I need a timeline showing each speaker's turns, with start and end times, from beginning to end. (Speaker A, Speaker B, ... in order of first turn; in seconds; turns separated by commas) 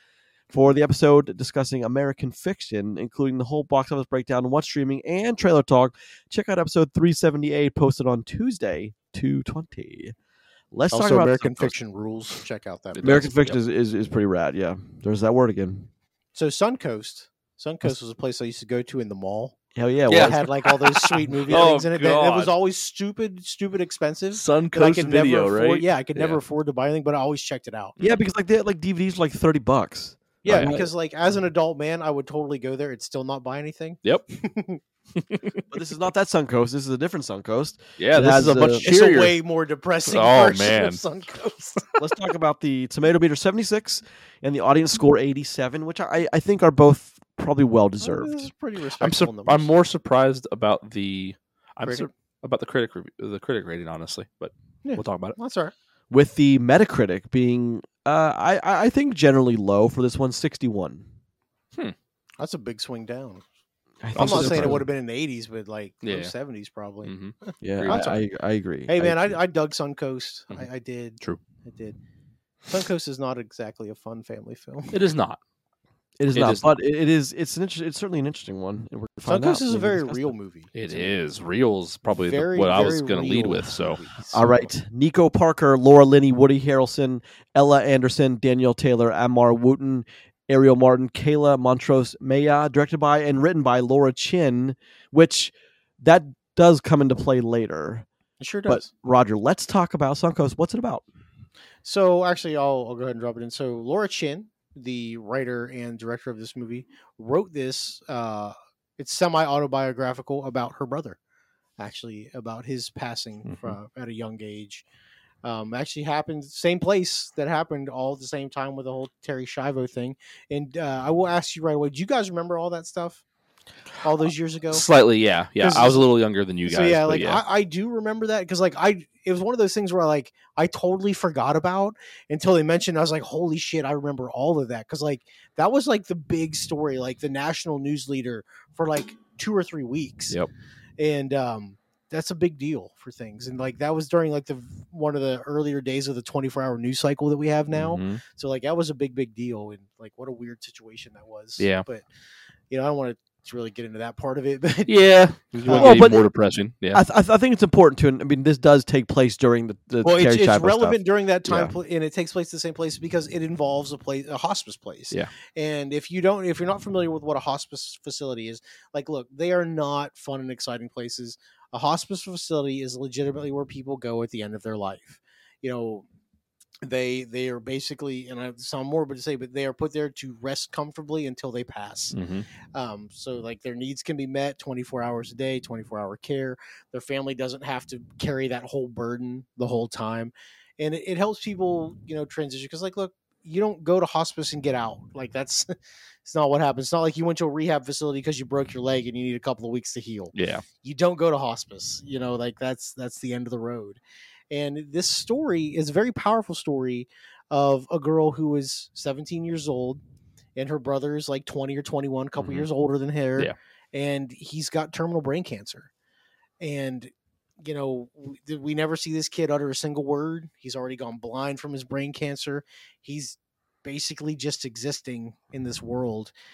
Speaker A: 0.5-10.1, Speaker A: 10.7-11.7, Speaker B: 10.9-13.4, Speaker C: 12.9-13.6, Speaker A: 13.0-15.9, Speaker B: 16.3-19.6, Speaker A: 19.7-20.4, Speaker C: 20.1-22.5, Speaker B: 20.1-27.9, Speaker C: 24.3-26.4, Speaker A: 28.0-30.9, Speaker B: 30.4-34.8, Speaker C: 30.4-30.8, Speaker A: 35.7-38.8, Speaker C: 38.0-39.4, Speaker B: 38.8-42.0, Speaker C: 40.1-41.0, Speaker A: 42.0-48.4, Speaker B: 48.0-49.7, Speaker C: 49.0-55.4, Speaker B: 54.8-55.7, Speaker A: 56.1-61.1, Speaker B: 62.4-63.4, Speaker A: 64.0-64.8, Speaker C: 64.1-64.8, Speaker B: 64.1-67.1, Speaker C: 66.0-66.3, Speaker C: 67.0-68.2, Speaker A: 67.6-69.4, Speaker B: 67.9-68.2, Speaker B: 68.9-72.0, Speaker B: 72.7-75.0, Speaker C: 74.9-75.4, Speaker A: 76.2-80.3, Speaker C: 76.3-76.7, Speaker B: 79.3-81.1, Speaker C: 80.7-84.0, Speaker B: 82.2-84.7, Speaker A: 84.3-98.1, Speaker B: 98.4-98.9, Speaker A: 98.7-101.0, Speaker B: 101.8-111.2, Speaker B: 111.8-114.8, Speaker C: 113.5-113.7, Speaker B: 115.4-123.2, Speaker B: 124.0-124.8, Speaker C: 124.7-127.4, Speaker B: 125.6-126.0, Speaker B: 126.7-140.3, Speaker B: 141.0-152.0, Speaker C: 147.7-148.2, Speaker C: 151.6-151.8, Speaker B: 152.7-154.9, Speaker C: 154.9-157.0, Speaker B: 155.6-156.2, Speaker A: 155.8-156.3, Speaker A: 156.9-161.7, Speaker B: 160.0-176.1, Speaker B: 176.8-182.2, Speaker C: 182.1-182.4, Speaker B: 182.7-204.0, Speaker C: 200.3-200.6, Speaker B: 204.5-210.0, Speaker B: 210.6-215.9, Speaker C: 212.4-212.7, Speaker B: 216.6-226.3